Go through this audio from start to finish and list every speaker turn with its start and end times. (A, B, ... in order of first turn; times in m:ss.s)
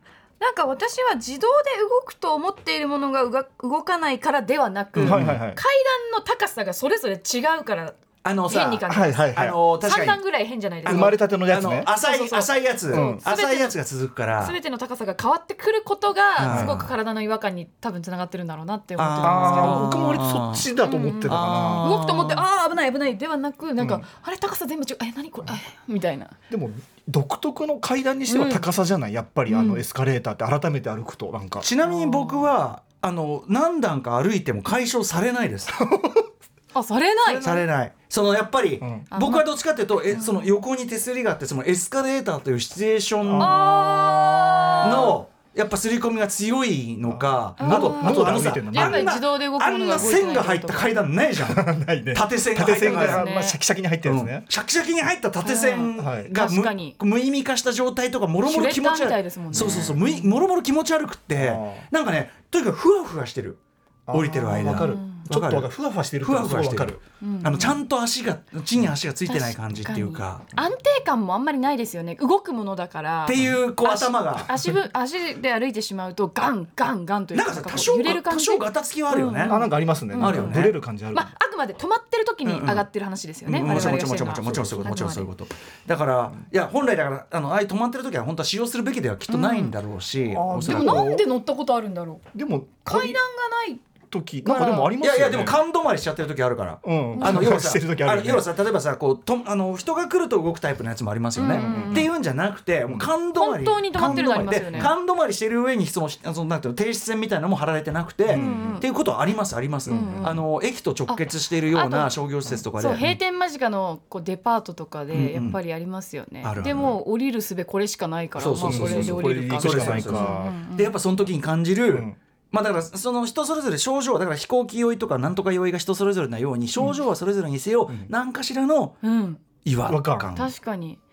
0:00.4-0:11.2 A
0:05.0-0:05.6 B
0:05.0-0:05.4 C
0:08.2-0:10.2 C
0:08.9-0:09.6 B
0:10.8-0:14.6 C
0:10.8-0:11.9 B
0:12.0-0:13.8 A
0:12.9-0:13.2 B
0:14.4-0:19.9 A
0:16.4-0:16.9 C
0:16.4-0:16.8 B
0:19.0-0:20.7 C
0:19.2-0:21.9 B
0:20.8-0:26.3 A
0:21.3-0:22.4 C
0:23.8-0:24.0 B
0:26.5-0:31.7 B
0:28.3-0:28.6 A
0:29.5-0:29.8 A
0:31.6-0:35.8 C
0:31.9-0:32.5 A
0:35.8-0:36.2 B
0:36.7-0:37.6 A
0:37.3-0:43.9 C
0:38.8-0:39.1 B
0:39.1-0:39.4 A
0:40.1-0:40.4 A
0:43.2-0:44.7 B
0:43.4-0:45.2 A
0:44.8-0:53.2 C
0:47.0-0:49.1 B
0:47.6-0:51.0 A
0:51.4-0:54.4 B
0:52.7-0:53.6 A
0:54.0-1:03.6 C
0:55.4-0:57.0 A
0:56.0-0:56.3 B
0:58.4-1:00.2 A
0:59.5-0:59.9 B
1:01.4-1:01.8 B
1:04.1-1:07.0 B
1:04.1-1:10.4 C
1:04.7-1:05.2 A
1:07.2-1:07.8 A
1:09.3-1:25.3 A
1:13.2-1:14.5 C
1:17.3-1:20.8 C
1:19.4-1:21.3 B
1:22.4-1:22.9 C
1:23.4-1:31.1 C
1:23.5-1:24.9 B
1:29.3-1:29.7 A
1:30.3-1:31.3 B
1:30.6-1:32.2 A
1:32.3-1:33.2 B
1:32.8-1:33.8 A
1:34.1-1:35.6 B
1:34.4-1:34.9 A
1:35.0-1:53.2 C
1:36.8-1:38.5 B
1:37.1-1:37.4 A
1:41.4-1:42.1 A
1:41.5-1:42.1 B
1:43.4-1:44.9 A
1:44.0-1:44.9 B
1:48.3-1:48.8 B
1:48.3-1:48.8 A
1:49.8-1:50.4 B
1:49.9-1:50.4 A
1:51.1-1:52.1 A
1:52.7-2:00.9 A
1:55.1-1:55.6 C
1:56.4-1:57.0 C
1:58.4-2:09.0 C
1:58.6-2:00.6 B
2:01.9-2:02.2 B
2:09.0-2:09.4 A
2:09.6-2:10.5 C
2:09.9-2:10.4 B
2:10.3-2:11.0 A